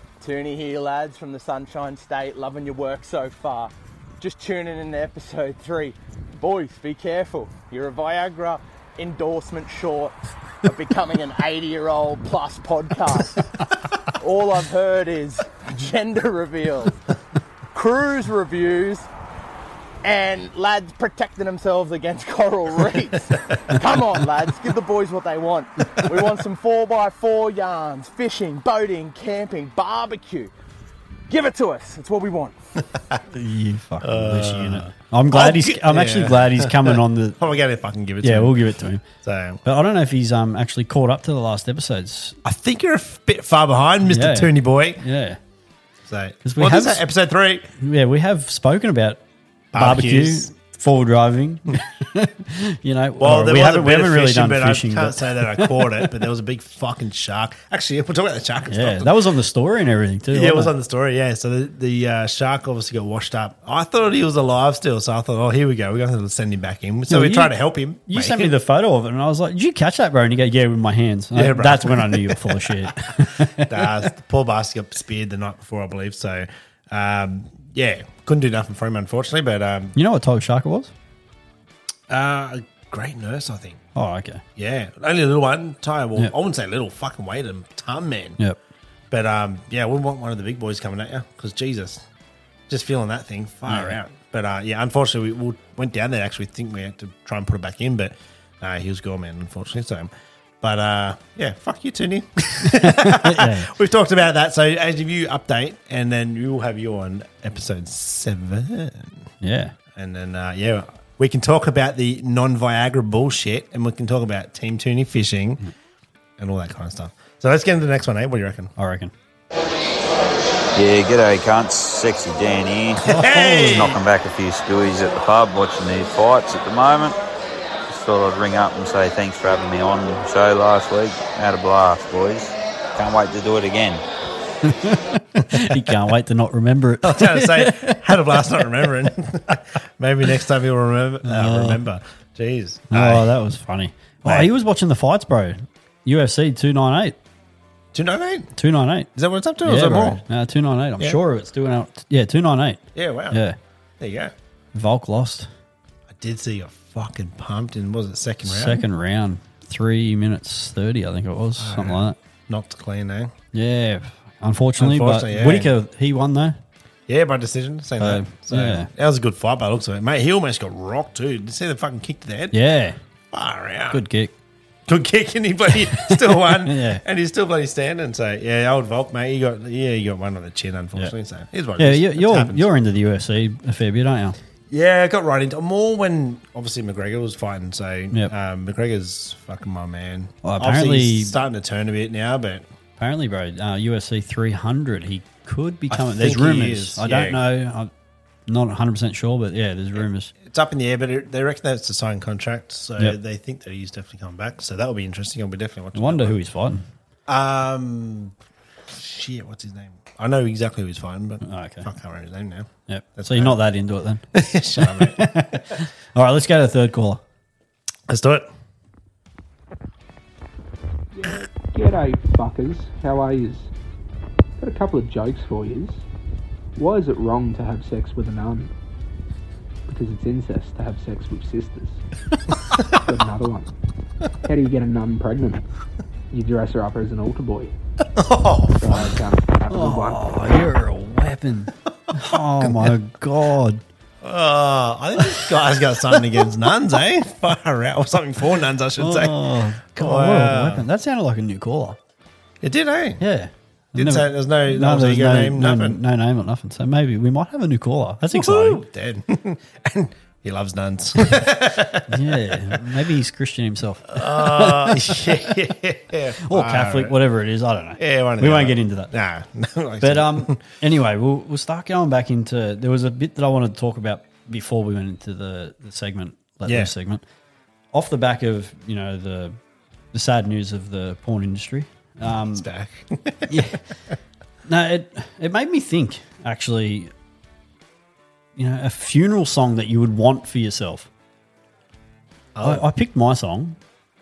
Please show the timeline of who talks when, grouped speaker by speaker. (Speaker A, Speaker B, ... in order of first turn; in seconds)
Speaker A: 0.2-13.5, 14.2-17.0, 17.7-19.1, 20.0-30.5, 31.3-32.6
Speaker B: 33.3-37.4, 38.2-39.0, 39.6-42.4, 44.0-45.4, 46.5-47.0, 47.8-49.2, 49.7-56.1, 58.7-60.7, 67.1-67.5, 68.1-74.1, 80.0-80.9, 84.0-84.4, 93.7-94.0, 102.6-103.7, 109.4-109.8, 118.8-119.1, 123.0-123.9, 134.6-138.6, 141.2-141.8, 142.9-147.2, 148.6-149.1, 149.6-153.6, 154.7-155.5, 158.4-162.2, 163.5-166.6, 168.0-168.9, 172.5-173.0, 173.9-174.3, 176.0-177.0, 181.8-184.4, 190.4-191.3, 193.0-197.9, 198.5-200.3, 205.9-206.8, 211.4-211.9, 212.9-214.2, 214.8-217.2, 239.7-243.8, 249.0-252.0, 253.2-258.8, 262.1-265.3, 266.4-269.1, 270.0-277.2, 277.9-279.6, 280.1-282.7, 283.5-283.8, 284.7-287.1, 288.6-291.1, 292.6-293.8
Speaker C: 34.0-38.6, 39.2-39.6, 42.4-45.0, 46.1-47.7, 49.7-50.5, 53.2-59.3, 60.3-68.5, 71.3-80.0, 82.1-83.8, 84.6-88.4, 89.1-92.0, 92.7-100.1, 100.6-109.3, 109.9-115.6, 116.4-118.7, 123.0-124.0, 137.0-143.3, 147.9-148.6, 149.2-150.2, 152.9-153.4, 154.0-154.3, 156.1-158.9, 161.6-163.3, 164.8-165.7, 167.1-172.6, 173.3-174.0, 174.9-182.7, 184.7-192.7, 195.9-197.4, 200.0-206.4, 207.3-208.3, 208.9-213.6, 214.3-215.8, 218.1-218.5, 238.2-239.1, 242.1-242.9, 244.2-250.9, 252.6-253.2, 253.9-256.0, 258.3-262.8, 264.1-267.2, 268.0-270.6, 276.7-276.9, 282.4-283.8, 292.6-292.9
Speaker D: 120.7-127.2, 127.9-134.0
Speaker E: 221.1-223.7, 224.6-226.1, 226.8-228.7, 229.9-232.0, 232.6-233.7, 234.4-235.6, 236.3-237.8, 238.8-240.2